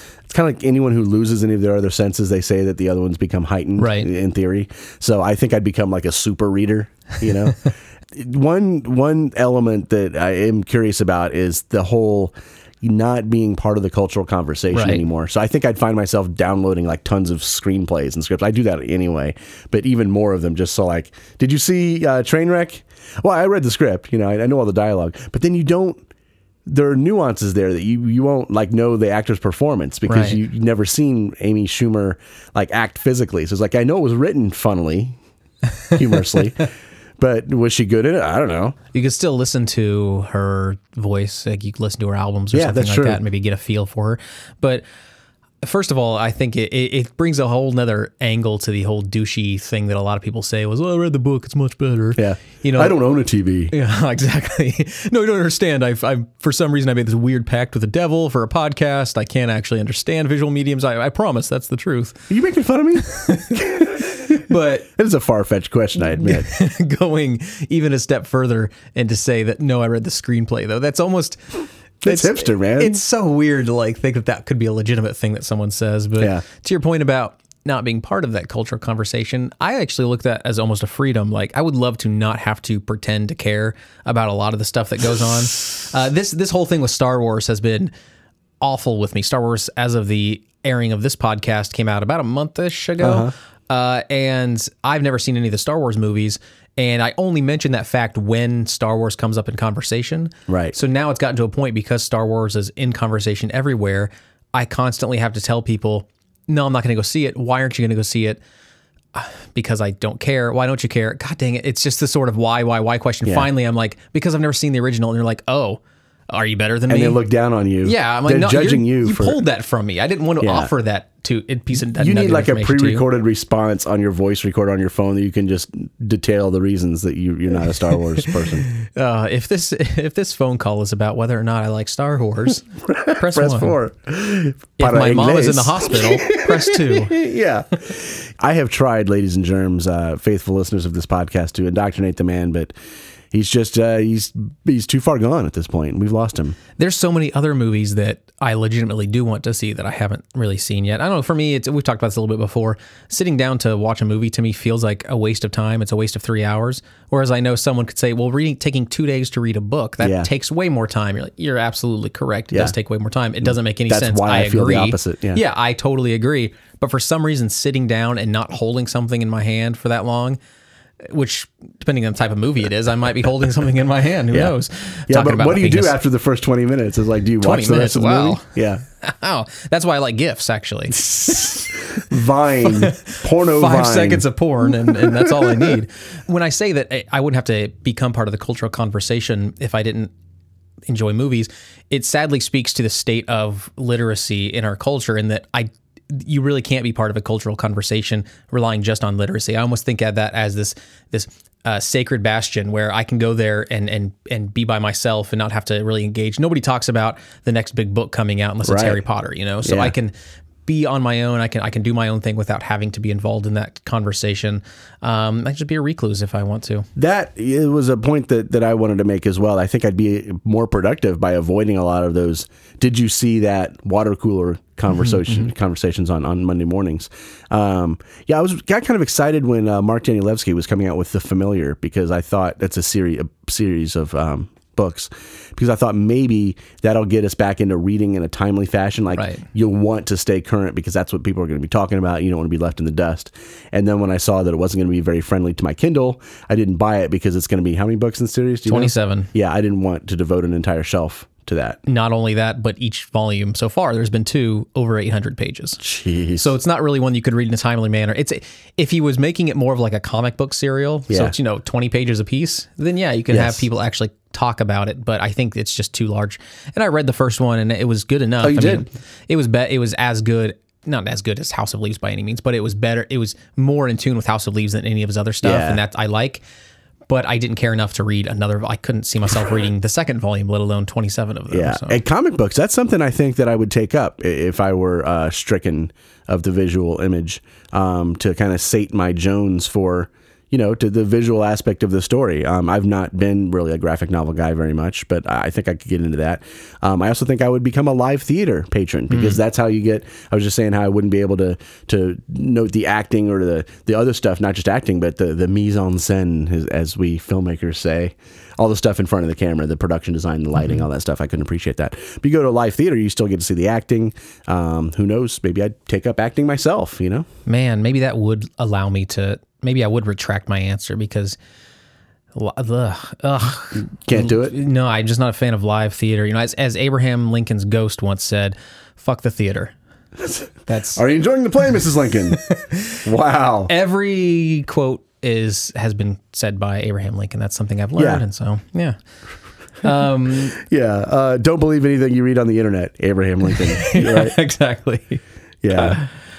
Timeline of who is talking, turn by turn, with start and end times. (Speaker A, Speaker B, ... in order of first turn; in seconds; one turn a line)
Speaker A: 0.3-26.1
Speaker B: 3.8-4.1
Speaker B: 14.7-15.0
Speaker A: 26.7-35.2
Speaker B: 30.1-30.4
Speaker A: 35.9-36.7
Speaker A: 37.2-38.8
Speaker B: 38.9-44.8
Speaker A: 42.5-43.2
Speaker B: 45.6-53.0
Speaker A: 52.2-53.7
Speaker B: 53.7-62.3
Speaker A: 62.3-64.2
Speaker B: 63.0-64.9
Speaker A: 65.0-66.5
Speaker B: 66.2-87.9
Speaker A: 72.0-73.0
Speaker B: 88.6-108.4
Speaker A: 93.0-93.3
Speaker A: 100.5-100.8
Speaker B: 109.1-117.2
Speaker A: 116.9-119.4
Speaker B: 117.8-123.1
Speaker A: 120.4-120.7
Speaker A: 121.9-128.7
Speaker B: 128.7-133.8
Speaker A: 132.9-142.7
Speaker B: 134.8-137.1
Speaker A: 143.3-146.6
Speaker B: 146.8-170.4
Speaker A: 160.0-160.3
Speaker A: 163.4-165.4
Speaker B: 171.1-175.9
Speaker A: 175.1-178.8
Speaker B: 177.4-178.5
Speaker B: 179.0-182.0
Speaker A: 180.9-184.2
Speaker B: 182.6-190.1
Speaker A: 184.9-185.8
Speaker B: 190.9-210.1
Speaker A: 208.6-209.0
Speaker A: 209.6-209.9
Speaker B: 210.7-216.9
Speaker A: 216.9-251.8
Speaker B: 224.9-225.4
Speaker B: 239.1-239.4
Speaker B: 248.7-249.3
Speaker B: 251.9-255.8
Speaker A: 255.8-256.5
Speaker B: 256.4-276.4
Speaker A: 261.1-261.4
Speaker A: 263.3-263.7
Speaker A: 268.4-268.9
Speaker A: 275.4-275.8
Speaker B: 277.1-282.0
Speaker A: 281.5-317.2
Speaker B: 299.1-299.4
Speaker B: 310.6-310.9
Speaker B: 317.4-321.4
Speaker B: 322.4-329.7
Speaker A: 324.0-324.5
Speaker A: 330.2-332.4
Speaker B: 330.7-331.0
Speaker B: 332.3-333.0
Speaker A: 333.0-333.7
Speaker B: 333.7-338.9
Speaker A: 338.0-338.2
Speaker B: 339.8-340.6
Speaker A: 340.6-344.4
Speaker B: 343.5-346.1
Speaker A: 345.6-346.0